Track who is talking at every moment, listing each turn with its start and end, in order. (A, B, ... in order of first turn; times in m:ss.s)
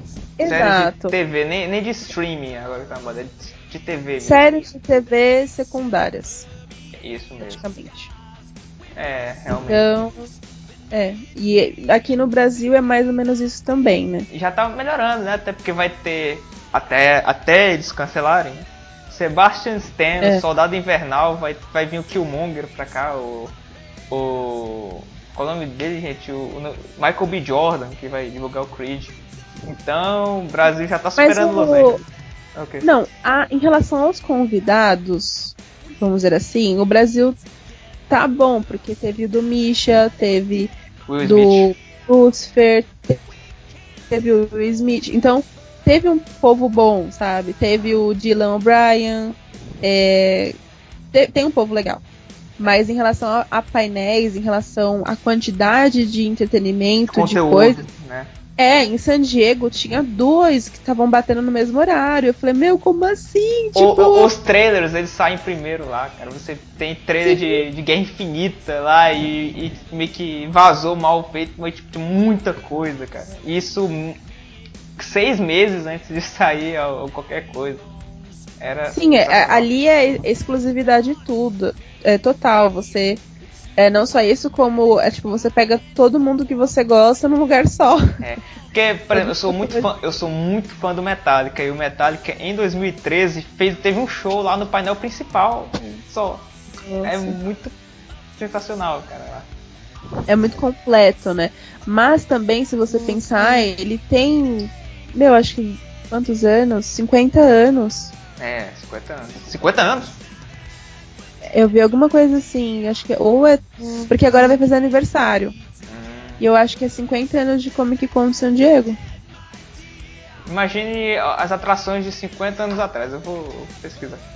0:00.4-0:01.1 A
0:00.4-0:04.6 B
0:04.2-0:06.5 A
0:06.9-0:07.6 B
0:07.4-0:08.1 A
0:08.9-0:09.9 B
0:09.7-0:10.3 A
0:10.9-0:14.3 A
0:14.3-0:23.5 B
0:24.1-0:32.0 B
0:31.2-0:32.0 A
0:32.5-0:32.9 B
0:32.8-0:37.4 A
0:38.1-0:43.2 A
0:41.0-0:41.7 B
0:44.1-0:50.5 A
0:51.1-0:52.0 A
0:52.6-0:57.8 A
0:57.1-0:58.3 B
0:58.6-1:04.3 A
1:03.7-1:14.2 B
1:07.2-1:07.6 A
1:15.0-1:17.8 B
1:18.6-1:19.7 B
1:18.9-1:23.2 A
1:23.8-1:28.0 A
1:28.2-1:36.5 B
1:29.1-1:29.9 A
1:36.8-1:37.4 A
1:37.0-1:37.7 B
1:38.3-1:39.5 B
1:40.3-1:48.1 A
1:48.4-1:50.2 B
1:51.5-1:55.5 A
1:55.9-1:56.4 B
1:56.4-1:59.0 A
2:00.4-2:04.3 B